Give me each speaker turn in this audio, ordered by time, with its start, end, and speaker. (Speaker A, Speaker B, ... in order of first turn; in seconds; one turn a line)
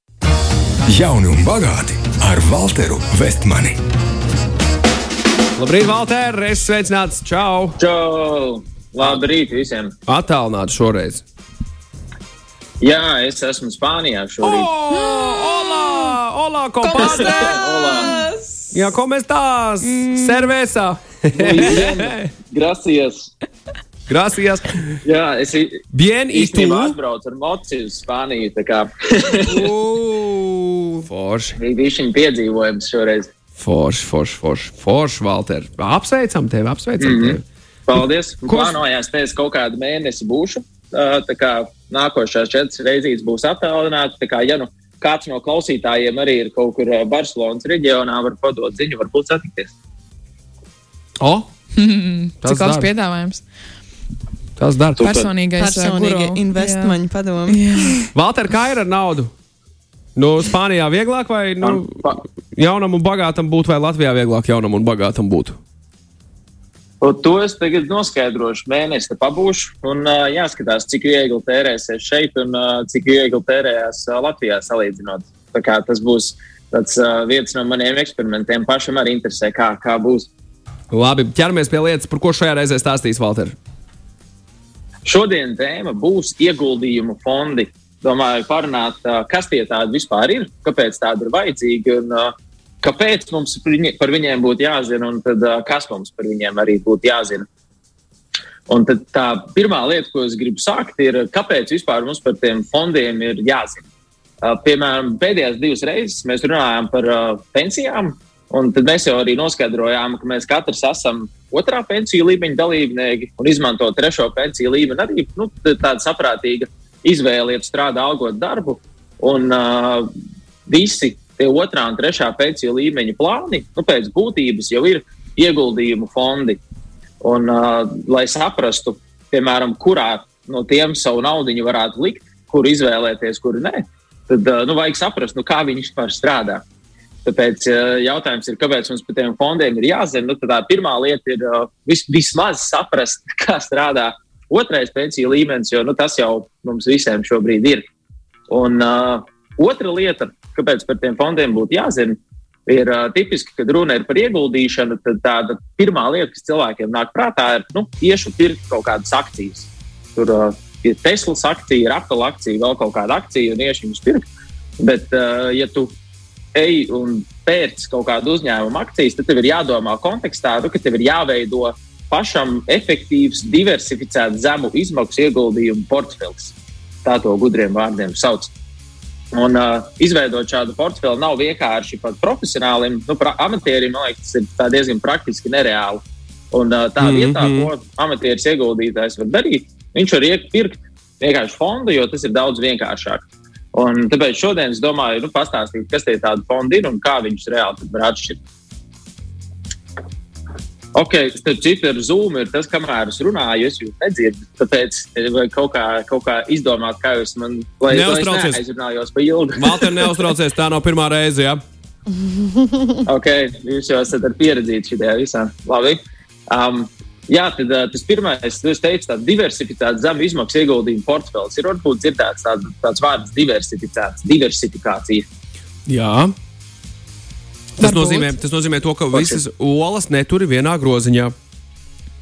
Speaker A: 0.9-3.8
Speaker B: 5.6-7.8
Speaker C: 7.8-10.0
Speaker B: 10.1-11.2
Speaker C: 12.8-14.7
Speaker B: 14.4-17.6
Speaker C: 17.0-18.2
Speaker D: 17.0-18.3
Speaker B: 18.7-22.2
Speaker C: 21.3-23.3
Speaker B: 24.1-25.0
Speaker C: 25.1-29.7
Speaker B: 25.9-26.9
Speaker B: 29.5-31.6
Speaker C: 31.6-33.3
Speaker B: 33.6-37.4
Speaker C: 37.0-49.7
Speaker B: 38.0-38.8
Speaker B: 51.2-51.5
Speaker D: 51.8-53.5
Speaker B: 52.4-52.9
Speaker B: 54.6-55.0
Speaker D: 55.0-57.0
Speaker C: 55.0-55.3
Speaker E: 55.6-58.0
Speaker D: 57.5-57.9
Speaker B: 58.1-59.3
Speaker B: 60.2-65.6
Speaker C: 61.6-62.2
Speaker C: 67.0-80.3
Speaker B: 80.9-83.5
Speaker C: 85.0-97.5
Speaker C: 98.7-103.9
Speaker C: 104.4-120.1
Speaker C: 120.7-126.6
Speaker C: 127.2-136.6
Speaker C: 137.2-147.8
Speaker C: 148.5-164.3
Speaker C: 164.8-165.9
Speaker C: 166.5-178.5
Speaker C: 179.3-198.4
Speaker B: 187.0-187.7
Speaker C: 200.9-210.3
Speaker B: 207.9-208.6
Speaker B: 209.6-211.6
Speaker C: 213.1-225.3
Speaker B: 225.9-226.3
Speaker B: 227.8-231.3
Speaker D: 227.8-228.3
Speaker C: 229.1-229.4